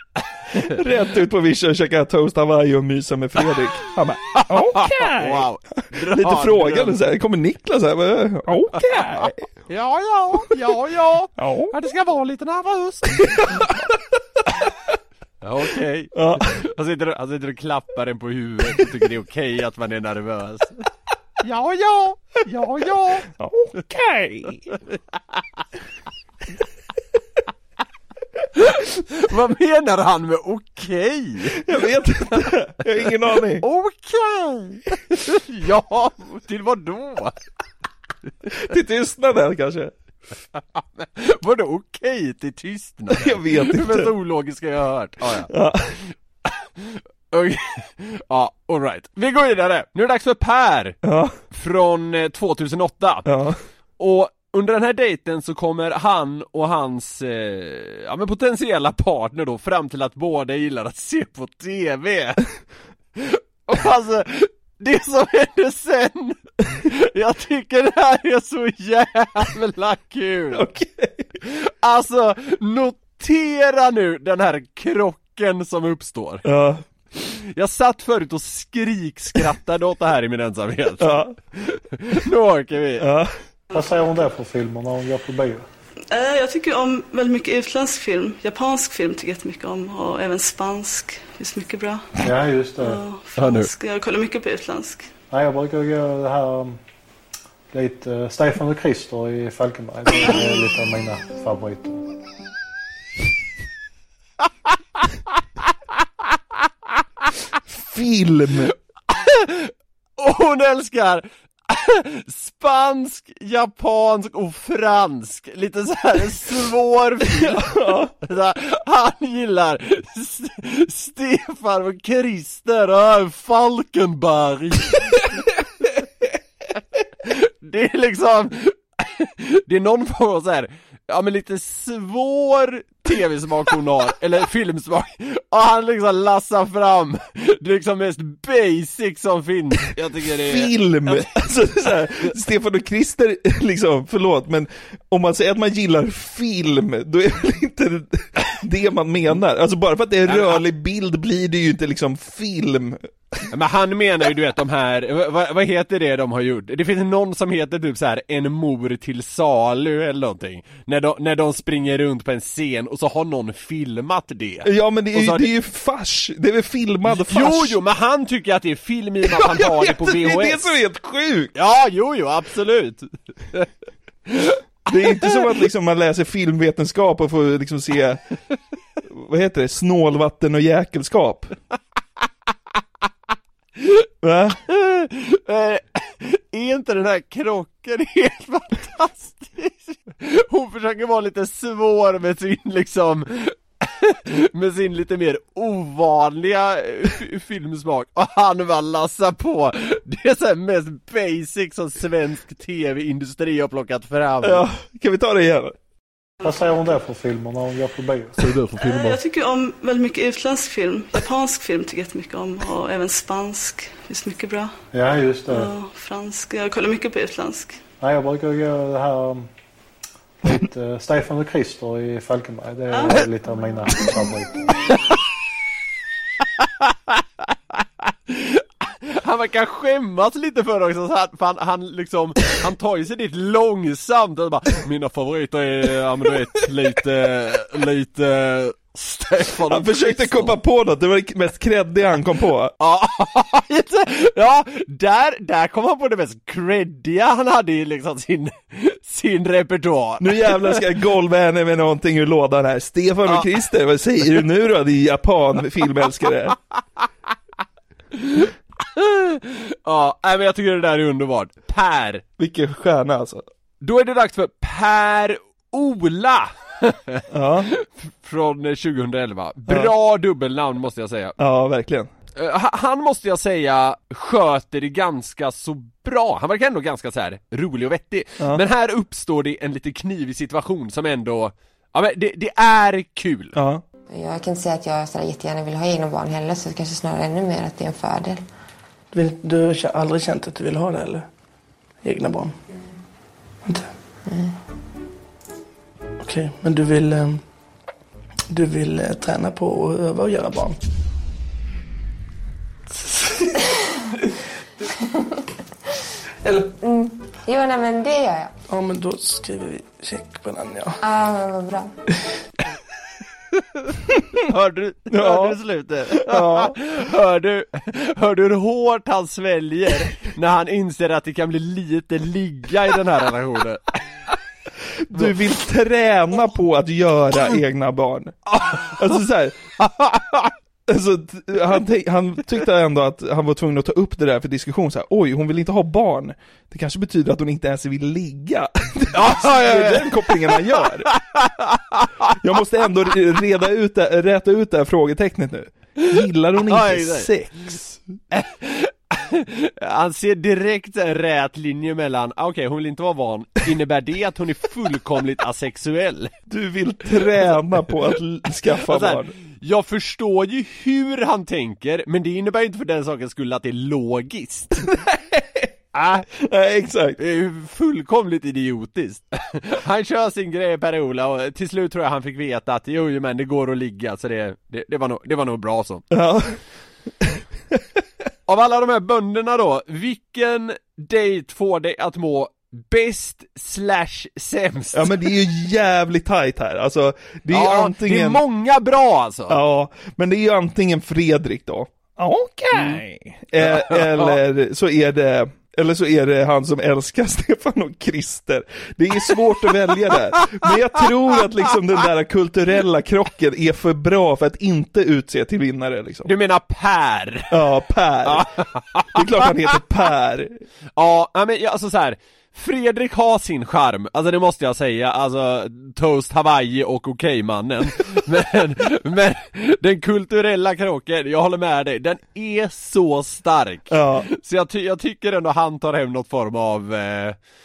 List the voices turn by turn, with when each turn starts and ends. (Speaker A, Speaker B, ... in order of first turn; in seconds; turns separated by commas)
Speaker A: 0.2-0.6, Speaker B: 0.7-9.4, Speaker A: 4.3-7.0, Speaker A: 8.8-13.7, Speaker B: 11.4-11.7, Speaker B: 13.2-13.7, Speaker A: 15.4-20.8, Speaker B: 16.1-16.5, Speaker A: 21.4-23.3, Speaker B: 23.3-24.7, Speaker A: 28.6-31.6, Speaker B: 31.5-33.6, Speaker A: 33.6-37.4, Speaker B: 38.5-39.9, Speaker A: 40.7-45.5, Speaker B: 43.1-44.1, Speaker B: 45.5-46.0, Speaker A: 46.8-51.0, Speaker B: 51.0-51.4, Speaker A: 51.5-53.3, Speaker B: 53.2-53.6, Speaker A: 54.0-62.4, Speaker A: 63.2-70.7, Speaker B: 70.5-71.3, Speaker A: 71.4-76.5, Speaker B: 76.4-76.8, Speaker A: 77.5-83.1, Speaker B: 81.0-81.3, Speaker B: 83.0-83.3, Speaker C: 83.7-85.6, Speaker D: 86.1-92.1, Speaker C: 92.2-93.0, Speaker D: 92.8-95.1, Speaker A: 93.4-93.7, Speaker C: 95.3-96.8, Speaker C: 97.7-102.1, Speaker B: 107.7-108.7, Speaker A: 109.1-125.2, Speaker B: 117.3-118.1, Speaker A: 127.2-141.5, Speaker B: 140.3-153.4, Speaker A: 150.3-150.6, Speaker A: 153.5-165.5, Speaker B: 164.6-167.8, Speaker A: 167.0-170.7, Speaker B: 169.3-171.5, Speaker A: 171.5-173.7, Speaker A: 174.3-174.6, Speaker B: 174.9-178.2, Speaker B: 179.1-181.5, Speaker B: 184.2-184.6, Speaker A: 184.7-204.7, Speaker B: 204.4-205.7, Speaker C: 206.4-208.4, Speaker A: 208.5-209.1, Speaker D: 208.8-214.8, Speaker C: 214.9-215.7, Speaker D: 215.5-217.8, Speaker C: 218.0-219.5, Speaker C: 220.4-224.8, Speaker D: 222.9-223.2, Speaker A: 228.3-240.5, Speaker B: 239.7-242.7, Speaker A: 242.8-250.8, Speaker B: 250.2-256.6, Speaker A: 258.1-262.2, Speaker B: 262.4-263.4, Speaker A: 263.8-271.3, Speaker B: 267.3-267.7, Speaker B: 271.4-272.1, Speaker A: 272.3-283.6, Speaker B: 283.5-283.8, Speaker E: 284.1-288.4, Speaker F: 289.1-291.3, Speaker F: 292.0-292.5, Speaker E: 294.3-294.5, Speaker F: 296.2-297.5, Speaker F: 298.5-300.8, Speaker F: 306.4-306.7, Speaker E: 306.8-308.5, Speaker F: 308.7-310.9, Speaker E: 311.0-311.9, Speaker A: 314.5-323.9, Speaker B: 315.1-315.6, Speaker B: 316.1-316.7, Speaker B: 325.1-329.6, Speaker A: 328.5-328.9, Speaker A: 329.8-330.5, Speaker B: 330.9-341.1, Speaker A: 339.1-342.3, Speaker B: 342.4-348.0, Speaker A: 346.7-347.7, Speaker A: 348.3-356.3, Speaker B: 356.5-359.3, Speaker A: 358.8-364.9, Speaker B: 364.9-365.7, Speaker A: 365.9-366.3, Speaker B: 366.4-367.2, Speaker A: 367.2-376.0, Speaker B: 376.1-376.6, Speaker B: 377.2-377.8, Speaker A: 378.5-385.1, Speaker B: 384.9-388.4, Speaker A: 387.5-389.6, Speaker B: 389.5-406.3, Speaker A: 393.6-394.4, Speaker A: 406.2-407.5, Speaker B: 407.5-408.5, Speaker A: 408.2-409.2, Speaker B: 409.1-410.6, Speaker A: 410.9-427.4, Speaker B: 423.9-424.3